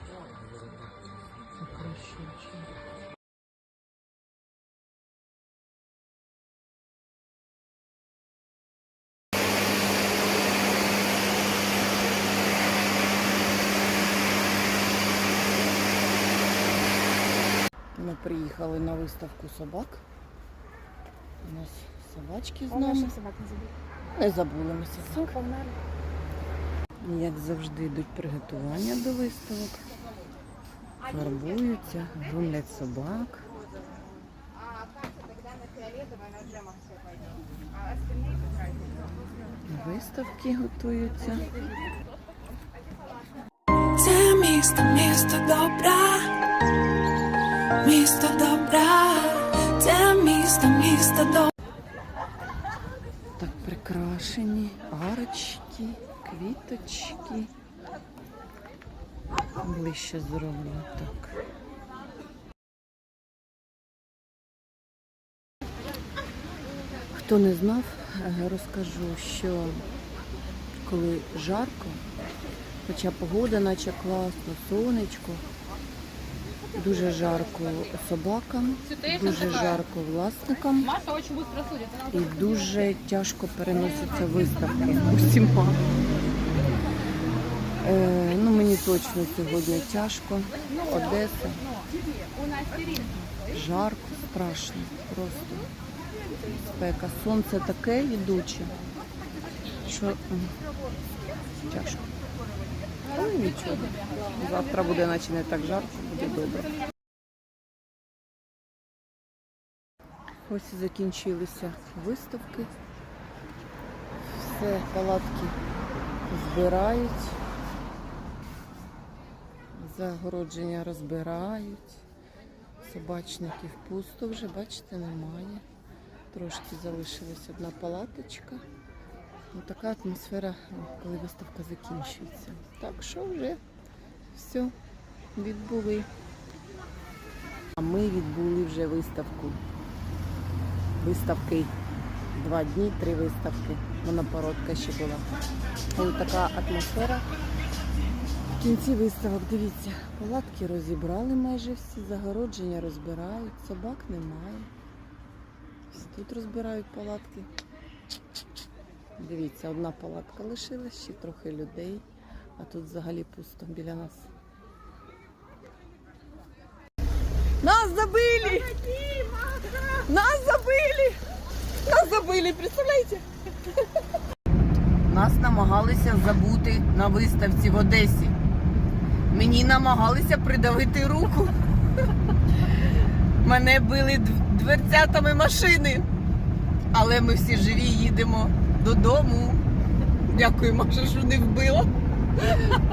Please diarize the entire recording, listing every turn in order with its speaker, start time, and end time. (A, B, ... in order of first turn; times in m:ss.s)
0:01.6-0:02.7 A
0:18.0-0:20.0 A
0:21.4-0:23.1 A
0:22.7-0:23.7 B
0:24.1-0:25.4 A
0:25.1-0:25.8 B
0:27.0-0:29.8 A
0:31.1-0:33.4 A
0:39.6-0:41.5 A
0:44.0-0:46.3 C
0:47.8-0:51.5 C
0:53.4-0:57.5 A
0:59.6-1:01.4 A
1:07.1-1:09.8 A
1:10.8-1:12.0 A
1:12.8-1:15.4 A
1:16.7-1:20.9 A
1:22.1-1:25.8 A
1:27.8-1:31.6 A
1:33.3-1:35.7 A
1:36.6-1:38.7 A
1:39.8-1:40.5 A
1:41.6-1:42.0 A
1:43.1-1:46.7 A
1:50.4-1:52.7 A
1:54.3-1:55.6 A
1:56.3-1:57.4 A
1:59.7-2:02.0 A
2:02.8-2:05.6 A
2:06.3-2:08.6 A
2:09.5-2:13.6 A
2:14.3-2:14.7 A
2:15.3-2:16.1 A
2:17.8-2:19.6 A
2:21.0-2:21.7 A
2:22.3-2:25.3 A
2:25.9-2:27.2 A
2:28.5-2:34.7 A
2:35.9-2:37.5 A
2:39.2-2:42.0 A
2:42.6-2:44.3 A
2:47.6-2:48.8 A
2:49.1-2:49.4 B
2:50.0-2:51.2 A
2:51.8-2:53.2 A
2:55.1-2:58.3 A
2:59.3-3:01.5 A
3:03.4-3:06.1 A
3:06.9-3:09.6 A
3:10.3-3:11.9 A